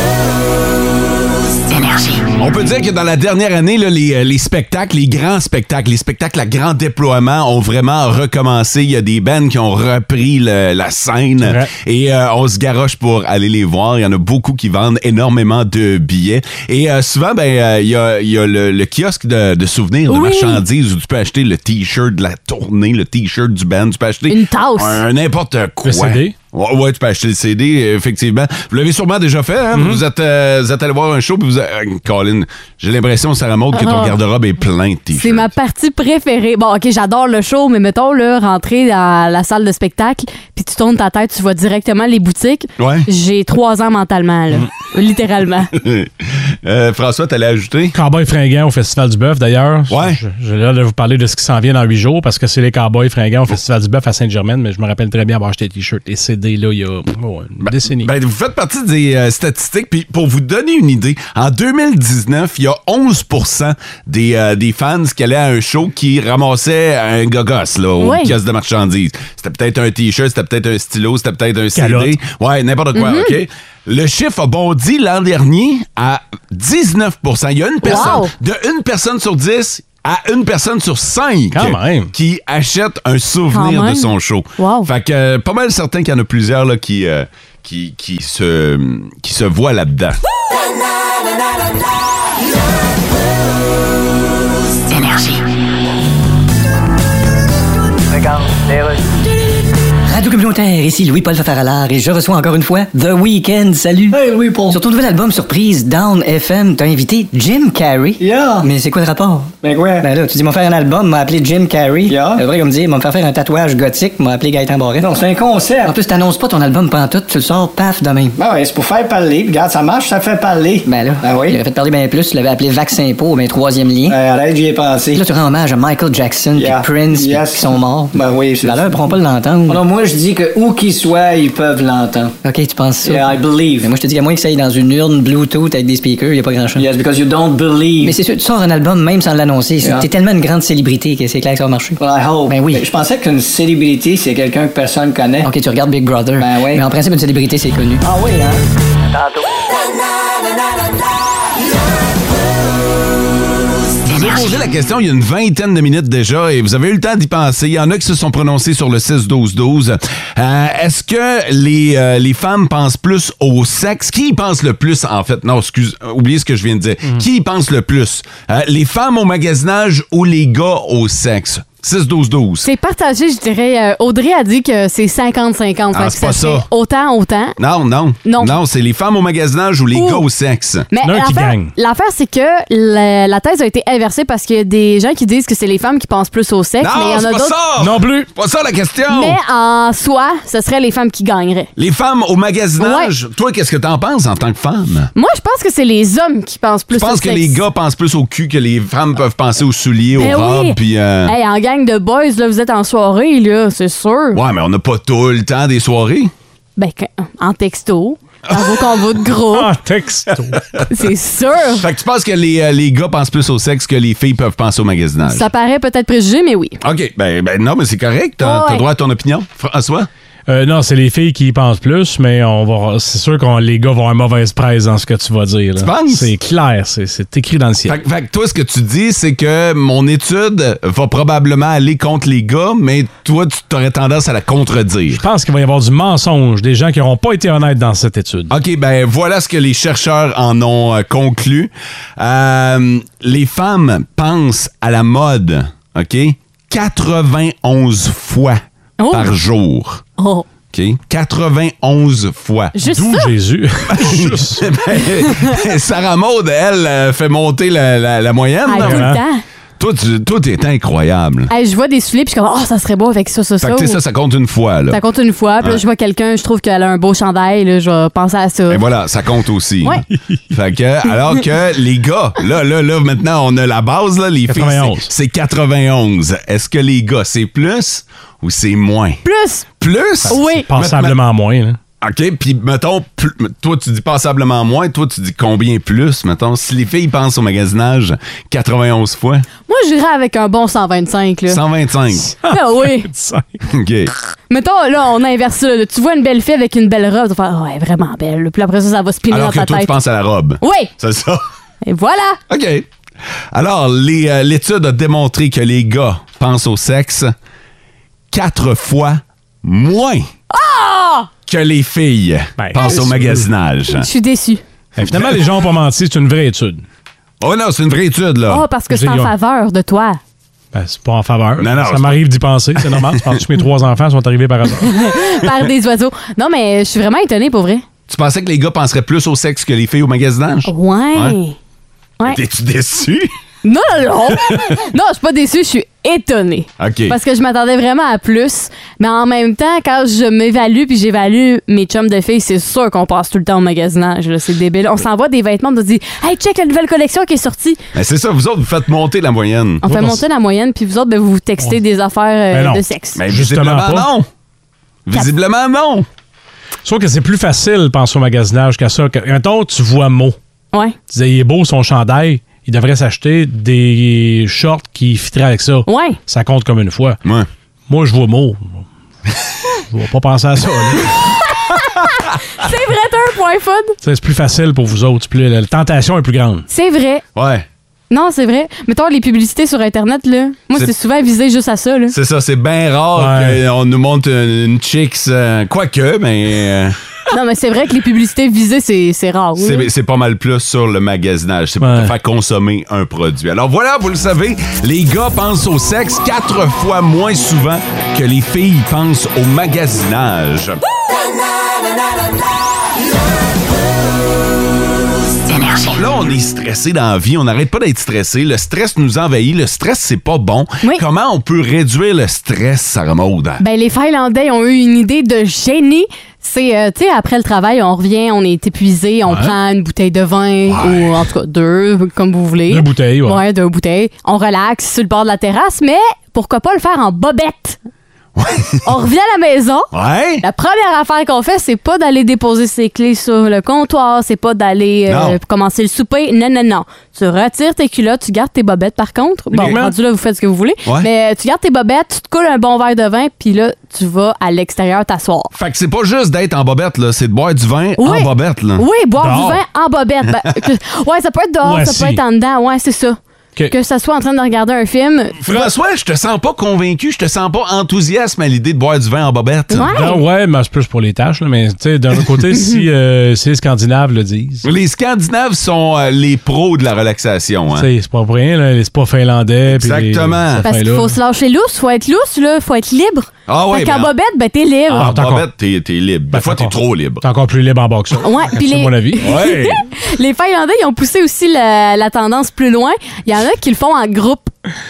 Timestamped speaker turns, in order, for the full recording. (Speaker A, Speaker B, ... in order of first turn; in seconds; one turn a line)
Speaker A: 2.4-35.5
Speaker B: 11.4-11.7
Speaker C: 20.1-20.6
Speaker C: 24.3-25.0
Speaker B: 25.8-26.3
Speaker B: 29.7-30.0
Speaker C: 33.7-34.1
Speaker C: 35.1-45.7
Speaker A: 42.8-43.1
Speaker A: 45.8-48.0
Speaker B: 47.9-58.1
Speaker A: 49.9-50.2
Speaker A: 57.6-90.2
Speaker C: 68.0-68.3
Speaker B: 71.8-72.1
Speaker C: 72.9-73.3
Speaker C: 77.8-78.3
Speaker B: 81.5-82.1
Speaker C: 83.5-84.9
Speaker D: 100.1-115.1
Speaker E: 104.1-104.8
Speaker E: 108.2-108.7
Speaker E: 109.6-110.1
Speaker E: 112.1-112.4
Speaker E: 115.0-115.9
Speaker D: 115.8-118.4
Speaker E: 118.4-121.6
Speaker D: 120.9-124.2
Speaker E: 124.1-125.2
Speaker D: 125.1-129.8
Speaker E: 126.6-129.0
Speaker E: 129.7-132.3
Speaker D: 132.4-136.9
Speaker E: 133.1-133.9
Speaker E: 136.8-138.2
Speaker D: 138.0-142.9
Speaker E: 139.8-140.1
Speaker E: 142.0-145.5
Speaker D: 145.4-148.0
Speaker E: 146.4-146.8
Speaker E: 148.0-148.6
Speaker A: 154.1-172.7
Speaker C: 172.6-177.6
Speaker A: 175.9-176.7
Speaker A: 177.6-180.9
Speaker C: 178.2-178.6
Speaker C: 179.9-180.2
Speaker C: 180.9-187.6
Speaker B: 181.0-181.8
Speaker A: 186.8-189.4
Speaker B: 187.8-188.3
Speaker C: 189.1-191.7
Speaker A: 191.8-195.1
Speaker C: 192.8-193.1
Speaker C: 195.1-197.6
Speaker A: 196.9-201.3
Speaker C: 200.2-204.4
Speaker A: 204.3-206.3
Speaker C: 206.8-209.7
Speaker A: 208.5-209.0
Speaker B: 209.5-210.6
Speaker A: 210.3-210.9
Speaker C: 210.9-211.9
Speaker A: 211.6-215.5
Speaker C: 215.3-216.8
Speaker A: 216.8-220.1
Speaker C: 218.4-218.8
Speaker B: 220.5-228.0
Speaker A: 225.8-226.3
Speaker A: 227.9-235.2
Speaker B: 235.2-238.5
Speaker A: 238.5-248.6
Speaker C: 249.0-249.3
Speaker A: 249.1-250.0
Speaker C: 250.2-250.4
Speaker A: 250.7-252.8
Speaker C: 252.8-253.3
Speaker B: 252.9-254.7
Speaker A: 253.9-259.2
Speaker C: 258.6-259.4
Speaker B: 258.8-259.2
Speaker A: 259.8-261.5
Speaker C: 261.5-264.0
Speaker A: 263.6-265.0
Speaker C: 264.9-268.8
Speaker A: 268.7-279.2
Speaker B: 274.5-275.1
Speaker C: 279.2-279.6
Speaker A: 279.8-281.2
Speaker B: 280.3-281.8
Speaker C: 280.3-280.7
Speaker A: 282.0-289.4
Speaker C: 289.7-291.6
Speaker A: 291.5-292.3
Speaker B: 292.3-293.6
Speaker C: 292.4-293.1
Speaker A: 293.6-294.1
Speaker C: 294.5-299.9
Speaker A: 299.3-301.4
Speaker C: 300.6-300.9
Speaker C: 301.8-302.4
Speaker A: 302.5-302.9
Speaker A: 303.5-307.3
Speaker A: 308.3-310.3
Speaker C: 310.5-311.3
Speaker A: 311.5-314.1
Speaker B: 312.6-313.5
Speaker C: 313.9-314.6
Speaker B: 314.9-316.9
Speaker A: 315.0-315.4
Speaker A: 317.4-318.6
Speaker C: 318.5-320.2
Speaker B: 318.9-319.3
Speaker B: 320.7-325.0
Speaker A: 321.6-322.2
Speaker A: 322.8-323.4
Speaker C: 324.8-327.8
Speaker A: 328.1-331.4
Speaker C: 330.6-331.6
Speaker A: 332.2-333.3
Speaker C: 333.6-347.8
Speaker A: 334.3-334.7
Speaker A: 336.8-337.2
Speaker A: 347.9-349.8
Speaker C: 349.8-353.2
Speaker B: 349.9-350.2
Speaker B: 352.5-354.1
Speaker A: 353.1-354.3
Speaker A: 355.1-356.1
Speaker B: 356.9-360.4
Speaker B: 361.1-367.2
Speaker C: 365.9-366.2
Speaker B: 367.9-368.9
Speaker B: 369.9-371.3
Speaker C: 371.4-374.0
Speaker B: 374.0-376.7
Speaker C: 376.7-377.2
Speaker A: 377.4-377.6
Speaker C: 378.1-382.1
Speaker A: 382.1-386.9
Speaker B: 383.1-383.6
Speaker C: 387.3-389.9
Speaker A: 389.6-400.8
Speaker B: 391.8-392.1
Speaker A: 405.7-413.6
Speaker C: 413.6-427.8
Speaker B: 419.3-419.6
Speaker A: 420.7-421.3
Speaker B: 422.7-423.4
Speaker A: 428.4-428.9
Speaker C: 428.8-445.5
Speaker A: 429.9-430.4
Speaker A: 435.1-435.4
Speaker B: 439.5-439.9
Speaker A: 445.5-448.9
Speaker C: 448.0-453.2
Speaker B: 449.2-449.6
Speaker B: 451.6-452.2
Speaker C: 453.7-455.4
Speaker A: 455.4-459.9
Speaker C: 459.7-460.2
Speaker B: 459.9-464.7
Speaker C: 462.5-462.8
Speaker A: 464.6-467.9
Speaker B: 467.7-471.2
Speaker A: 469.7-470.6
Speaker C: 470.6-475.1
Speaker A: 473.5-474.1
Speaker B: 474.9-475.4
Speaker A: 474.9-477.2
Speaker B: 476.3-479.6
Speaker C: 478.2-484.5
Speaker A: 479.2-479.8